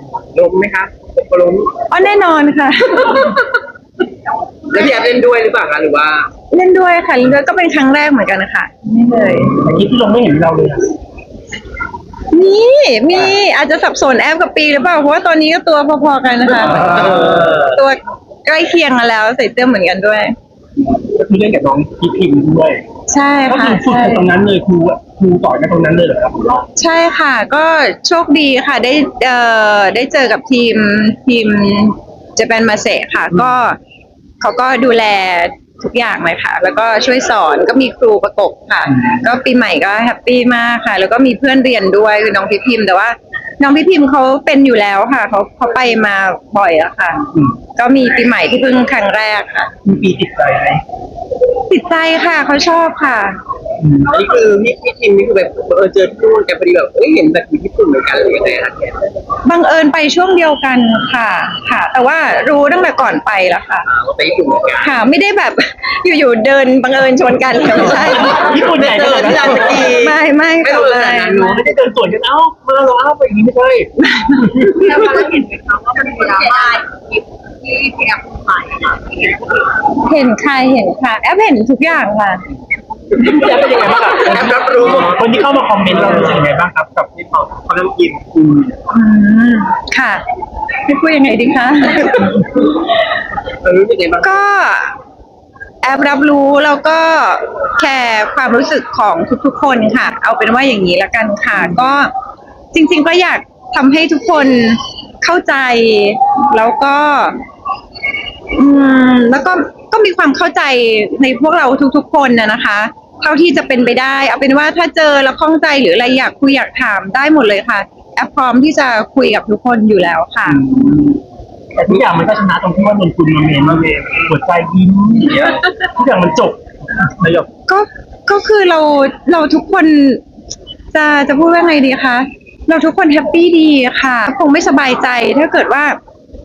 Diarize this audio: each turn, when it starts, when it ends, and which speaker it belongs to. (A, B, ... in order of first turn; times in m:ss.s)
0:00.3-0:01.7 A
0:01.9-0:03.5 B
0:04.7-0:06.3 A
0:06.5-0:09.6 B
0:09.5-0:10.9 C
0:12.3-0:20.3 B
0:16.8-0:17.4 A
0:16.9-0:17.2 C
0:20.9-0:22.8 C
0:23.1-0:24.2 B
0:23.5-0:26.6 C
0:26.8-0:33.8 B
0:34.4-0:47.2 B
0:47.8-0:49.7 B
0:49.8-0:50.8 C
0:51.7-0:53.4 B
0:53.8-0:54.1 C
0:54.0-0:59.1 A
0:59.4-1:03.8 B
1:03.9-1:04.9 A
1:04.8-1:08.5 B
1:07.9-1:09.9 C
1:08.2-1:11.6 A
1:09.7-1:11.6 B
1:11.2-1:13.9 C
1:14.2-1:14.5 B
1:14.4-1:14.7 C
1:14.8-1:19.4 D
1:20.0-1:22.4 B
1:23.1-1:27.3 C
1:23.3-1:25.2 A
1:27.3-1:28.5 A
1:28.9-1:30.2 B
1:30.8-1:32.5 B
1:33.6-1:34.3 A
1:34.2-1:34.9 B
1:35.8-1:42.1 B
1:42.7-1:47.4 B
1:48.5-2:00.6 B
2:00.4-2:01.2 C
2:01.8-2:07.5 C
2:07.7-2:10.2 B
2:10.9-2:16.0 B